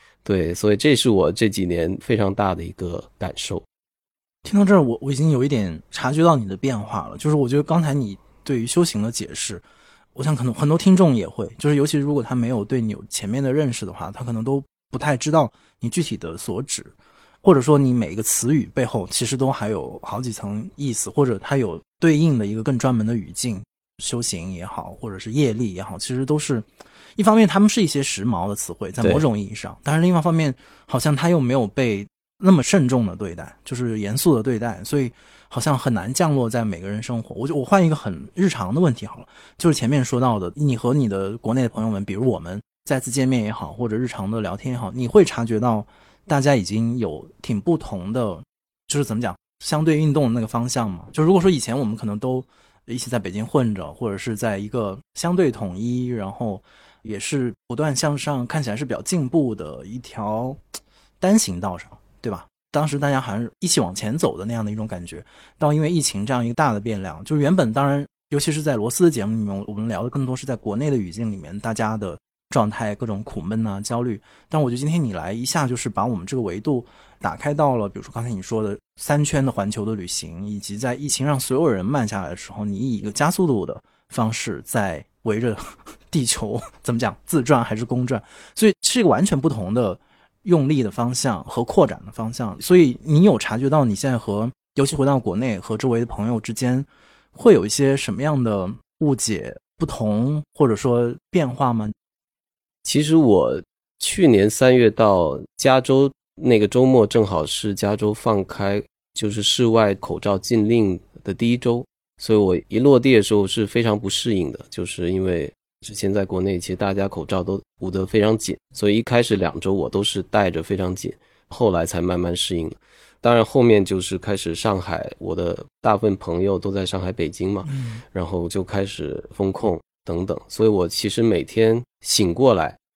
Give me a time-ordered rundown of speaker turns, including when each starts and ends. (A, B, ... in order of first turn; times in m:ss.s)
0:00.2-0:03.7 A
0:04.4-0:09.6 B
0:10.2-1:00.6 B
0:29.0-0:29.3 A
1:01.2-1:42.0 B
1:42.8-2:12.8 A
2:07.7-2:08.0 B